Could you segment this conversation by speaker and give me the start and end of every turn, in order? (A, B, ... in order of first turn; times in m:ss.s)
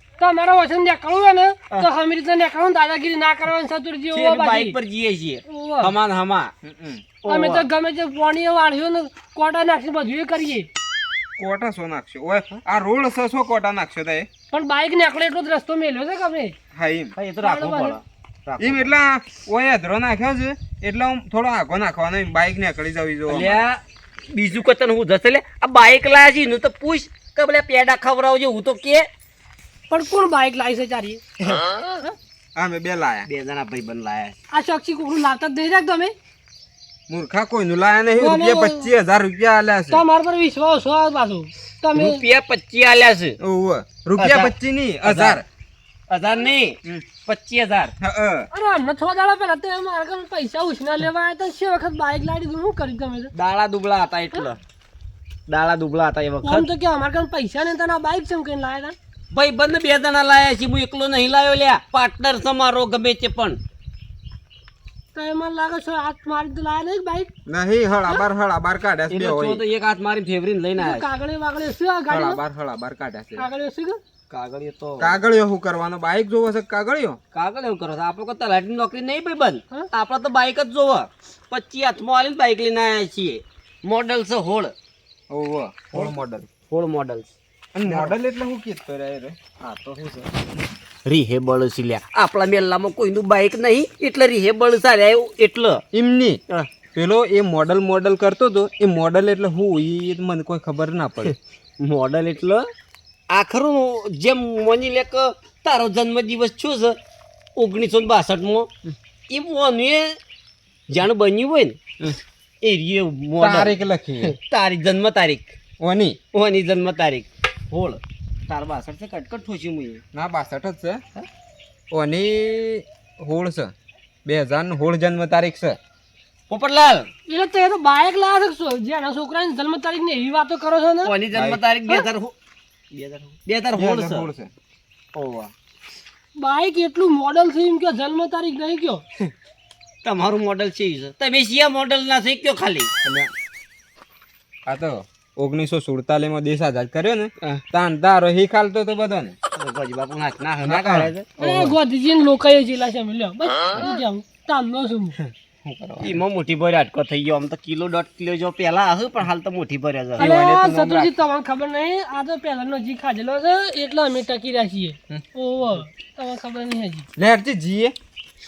0:00.2-0:04.8 A
0:04.1-0:06.5 B
0:05.5-0:05.9 A
0:06.6-0:07.0 C
0:07.2-0:07.7 B
0:07.3-0:10.7 A
0:11.4-0:14.3 C
0:14.5-0:16.6 A
0:16.7-0:17.1 C
0:17.2-0:19.0 B
0:17.4-0:18.0 A
0:18.6-0:23.6 C
0:23.3-0:29.1 B
0:29.9-0:31.2 A
0:31.4-0:31.7 B
0:31.7-0:32.1 A
0:32.6-0:33.3 C
0:33.3-0:34.4 B
0:34.5-0:36.1 A
0:37.1-0:40.0 C
0:38.2-0:38.9 A
0:39.9-0:42.2 A
0:42.0-0:43.4 B
0:43.4-0:45.4 C
0:44.2-0:44.5 B
0:45.0-0:45.4 B
0:46.1-0:47.9 B
0:48.0-0:48.5 C
0:48.5-0:53.3 A
0:53.3-0:54.6 B
0:55.5-0:56.7 B
0:56.4-0:59.0 A
0:59.3-1:03.6 B
1:05.2-1:07.3 A
1:07.5-1:09.6 C
1:09.1-1:11.1 B
1:10.8-1:12.4 A
1:12.1-1:13.5 C
1:13.4-1:14.0 A
1:14.3-1:15.2 B
1:15.0-1:17.2 C
1:17.3-1:24.7 B
1:25.3-1:26.5 C
1:26.7-1:27.3 B
1:27.8-1:29.4 C
1:27.8-1:28.1 B
1:29.6-1:30.3 B
1:31.0-1:35.8 B
1:35.9-1:36.4 C
1:36.9-1:41.4 C
1:41.3-1:42.7 B
1:43.3-1:47.0 B
1:47.6-1:48.7 B
1:49.3-1:50.2 B
1:50.9-1:51.8 B
1:52.6-1:55.6 B
1:53.4-1:54.4 C
1:55.8-1:56.2 C
1:56.3-2:00.0 B
2:00.1-2:01.0 C
2:01.9-2:03.7 C
2:04.2-2:05.8 C
2:06.5-2:07.1 B
2:07.3-2:11.1 A
2:11.0-2:12.4 B
2:11.3-2:11.6 C
2:12.9-2:14.3 B
2:13.8-2:14.5 C
2:15.2-2:15.5 B
2:16.4-2:19.0 A
2:20.0-2:22.9 B
2:23.0-2:23.3 C
2:24.7-2:29.4 C
2:29.5-2:31.7 B
2:30.7-2:31.7 C
2:31.4-2:35.2 A
2:35.6-2:36.2 C
2:36.0-2:40.3 B
2:40.2-2:41.1 C
2:40.2-2:47.1 A
2:47.2-2:48.0 C